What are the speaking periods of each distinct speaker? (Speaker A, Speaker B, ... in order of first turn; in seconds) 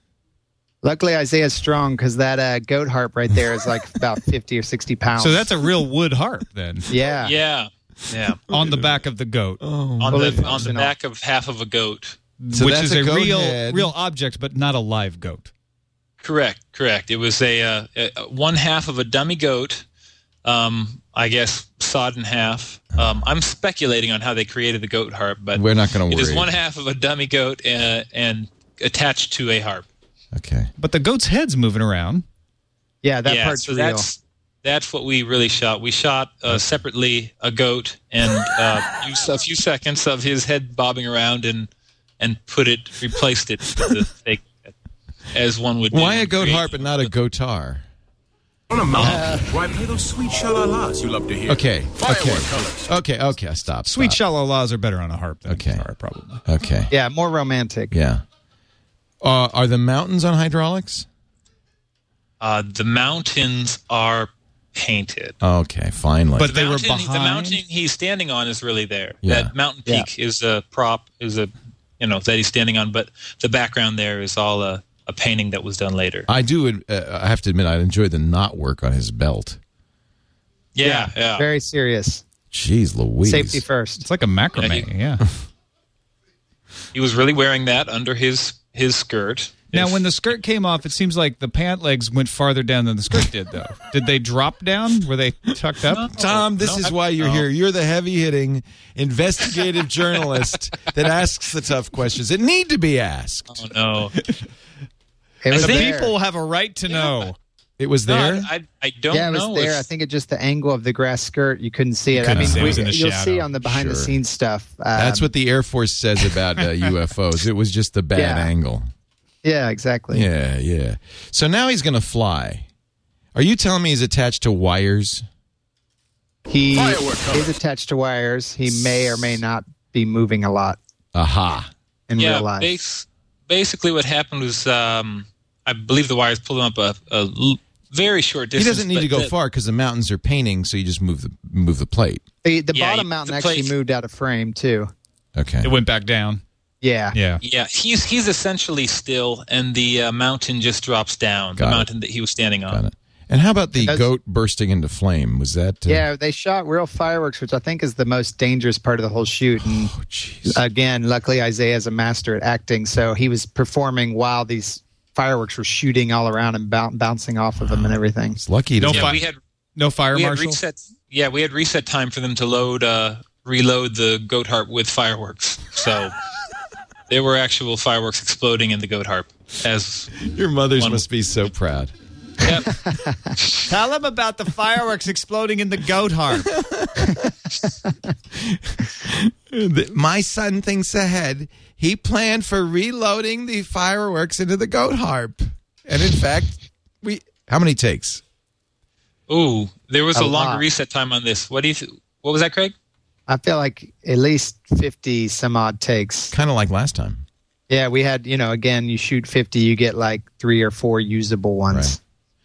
Speaker A: 0.8-5.5, 6.9-7.3, 10.1-10.9, 33.0-34.0, 48.9-49.6, 56.9-57.9, 80.8-82.2, 83.2-84.0, 105.4-106.1, 109.1-115.3, 118.1-118.5, 119.4-120.3, 126.5-130.8, 132.1-132.7, 142.4-144.9, 146.8-147.1, 153.8-154.1, 155.9-159.9, 160.5-168.4, 182.5-183.3, 200.1-200.6, 203.3-206.3, 207.7-212.0
Speaker B: 5.2-6.9, 8.5-9.6, 12.4-15.5, 30.8-32.2, 53.8-56.4, 66.3-67.6, 84.0-85.2, 89.7-96.1, 105.5-107.4, 112.1-113.5, 145.6-146.4, 147.1-147.4, 168.8-169.2, 169.8-170.6, 183.7-186.6
Speaker C: 7.2-8.4, 10.0-12.2, 16.2-19.8, 20.4-29.8, 33.2-41.7, 42.2-44.7, 45.3-47.1, 62.4-65.3, 66.4-76.3, 80.7-81.4, 84.6-84.9, 86.9-90.1, 95.9-97.5, 103.5-104.1, 105.5-106.0, 108.1-109.9, 132.2-139.3, 142.7-143.7, 147.4-152.8, 168.8-169.4, 170.1-176.1, 177.1-180.2, 180.8-181.0, 182.4-182.7, 199.3-202.7
Speaker D: 8.5-9.0, 9.6-10.6, 12.5-13.9, 22.9-23.2, 25.5-26.5, 30.3-30.7, 45.9-47.8, 51.5-54.2, 55.5-55.8, 56.4-56.9, 57.9-58.2, 59.2-61.0, 65.4-66.5, 69.2-69.5, 76.3-79.6, 82.5-83.6, 96.1-103.7, 107.8-108.5, 112.3-112.9, 113.6-114.2, 114.9-118.9, 120.1-122.7, 123.3-125.2, 128.7-129.3, 131.1-131.7, 138.6-142.2, 145.3-145.7, 151.6-151.9, 152.7-156.1, 159.7-160.6, 167.6-169.2, 180.2-181.9, 186.4-187.3, 188.3-198.2, 206.3-207.2, 211.7-212.0
Speaker E: 48.7-52.9, 126.7-127.6